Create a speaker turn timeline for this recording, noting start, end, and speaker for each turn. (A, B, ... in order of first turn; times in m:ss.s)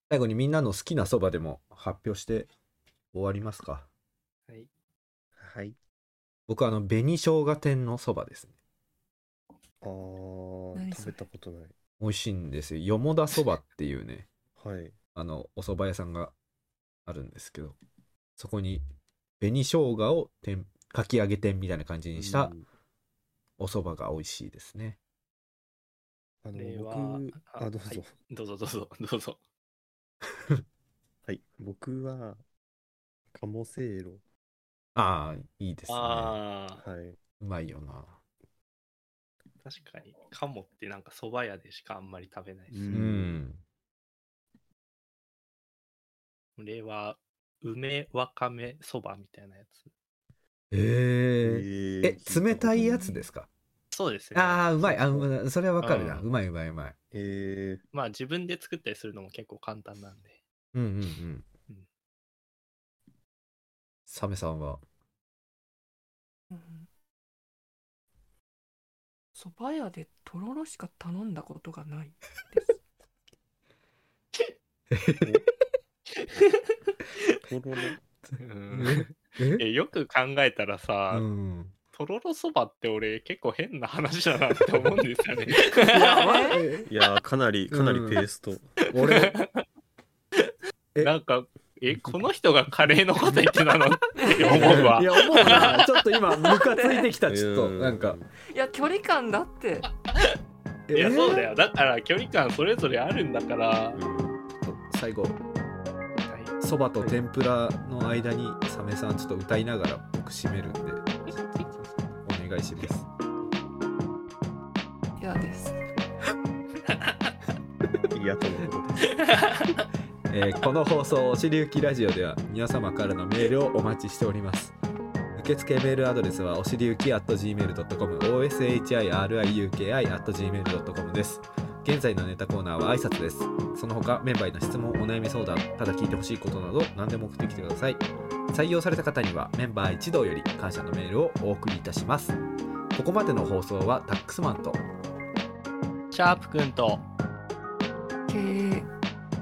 0:00.1-0:02.5 A
0:03.1-0:03.9 A
0:05.4-0:05.8 B
0:06.5-0:08.5 A
0:09.8-0:11.7 B
0:10.8-0:11.2 C
0:12.0-0:14.3 A
0:14.6-0:14.9 B
0:15.2-0:16.3 A
0:17.1-0:17.8 A
0:18.4-0:18.8 A
0:19.4-0:22.5 A
0:22.2-0:22.7 B
0:23.6-0:25.0 A
0:26.4-0:28.1 B
0:26.5-0:29.4 D
0:31.2-0:32.4 B
0:33.3-0:34.2 B
0:35.0-0:36.4 A
0:35.9-0:36.8 D
0:36.8-0:37.2 B
0:37.4-0:38.2 A
0:39.6-0:42.8 D
0:42.7-0:43.4 B
0:42.9-0:43.6 A
0:46.6-0:49.9 D
0:50.7-0:53.5 A
0:51.4-0:53.2 B
0:53.9-0:54.7 D
0:54.3-0:57.0 A
0:54.8-0:55.3 B
0:55.8-0:56.3 D
0:57.1-0:57.8 B
0:57.9-1:00.4 D
1:00.7-1:01.5 A
1:04.1-1:04.8 A
1:06.5-1:06.9 C
1:09.4-1:12.8 C
1:14.9-1:15.4 A
1:16.2-1:16.5 D
1:17.4-1:18.0 B
1:18.4-1:21.3 D
1:18.7-1:19.6 A
1:21.1-1:21.7 A
1:21.9-1:26.2 D
1:25.8-1:26.9 A
1:25.9-1:26.6 C
1:26.8-1:28.8 B
1:27.7-1:28.2 A
1:28.9-1:29.4 A
1:29.0-1:29.6 D
1:31.0-1:35.8 D
1:31.9-1:32.2 A
1:32.8-1:33.5 A
1:34.3-1:34.7 C
1:34.4-1:38.2 A
1:36.4-1:37.1 C
1:37.3-1:38.3 B
1:38.5-1:39.9 C
1:40.9-1:41.5 A
1:40.9-1:44.0 D
1:44.0-1:44.4 B
1:44.6-1:45.4 A
1:46.2-1:46.6 D
1:46.6-1:51.3 A
1:52.2-1:53.1 A
1:55.2-1:55.8 C
1:58.1-1:59.2 B
1:59.2-1:59.8 D
2:00.3-2:04.7 A
2:05.4-2:22.4 A
2:22.9-2:24.8 A
2:26.1-2:27.0 D
2:28.3-2:28.9 C